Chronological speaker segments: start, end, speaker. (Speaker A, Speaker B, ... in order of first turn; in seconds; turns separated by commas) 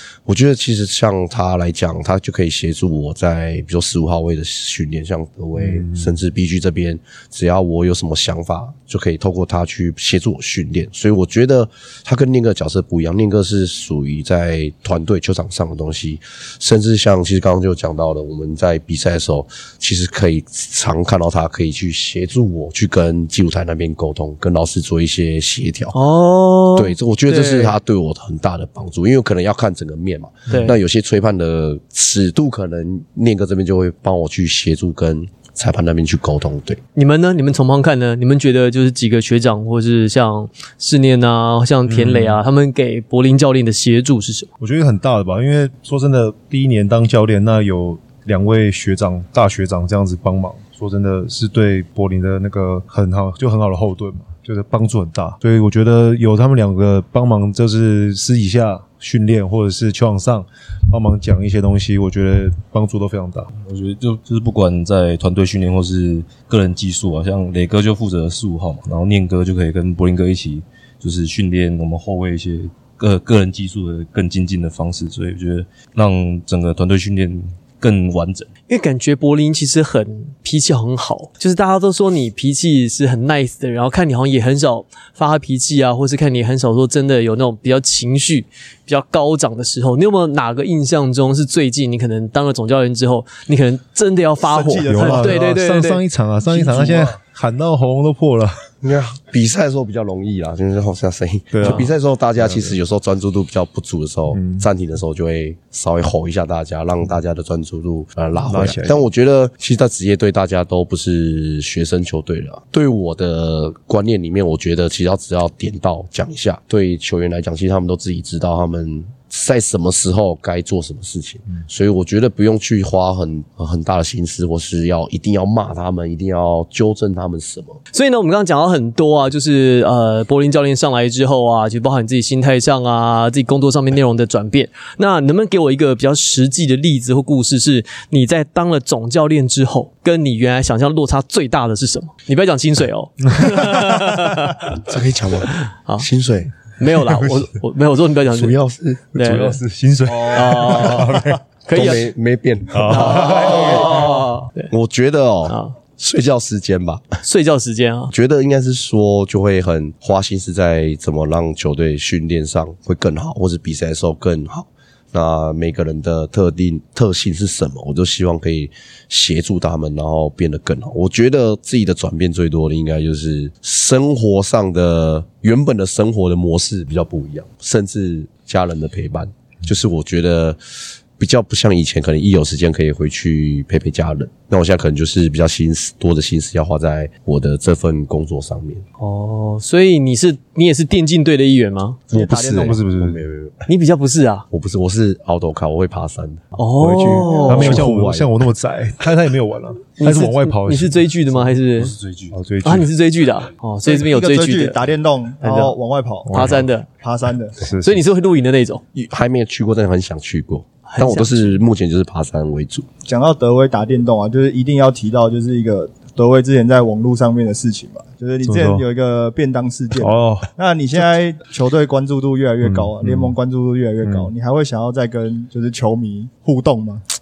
Speaker A: 0.2-26.0, Speaker B: 5.5-6.2, Speaker C: 25.9-27.8, Speaker A: 26.7-36.8, Speaker C: 30.5-30.8, Speaker C: 36.9-44.5, Speaker B: 41.9-42.4, Speaker B: 44.6-63.5, Speaker D: 63.6-78.5, Speaker C: 78.7-96.0, Speaker E: 94.4-95.4, Speaker B: 94.9-98.7, Speaker E: 96.6-97.1, Speaker A: 98.8-127.8, Speaker B: 101.5-102.8, Speaker C: 101.6-101.9, Speaker B: 104.3-104.7, Speaker B: 108.3-109.0, Speaker C: 127.9-144.8, Speaker A: 144.8-146.6, Speaker C: 145.6-146.1, Speaker C: 146.7-148.6, Speaker B: 147.1-147.4, Speaker A: 148.3-149.1, Speaker C: 149.1-149.6, Speaker B: 149.1-151.4, Speaker C: 150.1-152.1, Speaker A: 151.7-157.2, Speaker B: 152.7-154.2, Speaker C: 152.8-154.7, Speaker C: 155.5-155.7, Speaker C: 157.2-158.1, Speaker A: 158.1-188.8, Speaker C: 189.0-192.1, Speaker E: 192.1-192.8, Speaker A: 192.1-193.7, Speaker B: 192.5-193.2, Speaker C: 193.7-194.4, Speaker A: 194.5-198.3, Speaker C: 196.5-197.9, Speaker B: 196.8-201.1, Speaker C: 200.0-201.9, Speaker D: 201.7-202.4, Speaker B: 202.3-202.9, Speaker C: 202.6-204.8, Speaker E: 203.8-207.6, Speaker C: 205.4-205.7, Speaker B: 206.3-206.7, Speaker C: 206.3-206.9, Speaker B: 207.6-208.0, Speaker C: 207.8-208.8, Speaker A: 208.9-212.9, Speaker C: 210.9-211.4, Speaker E: 213.0-227.0, Speaker B: 218.4-218.8, Speaker B: 219.9-220.5, Speaker B: 222.6-223.3, Speaker B: 224.0-224.3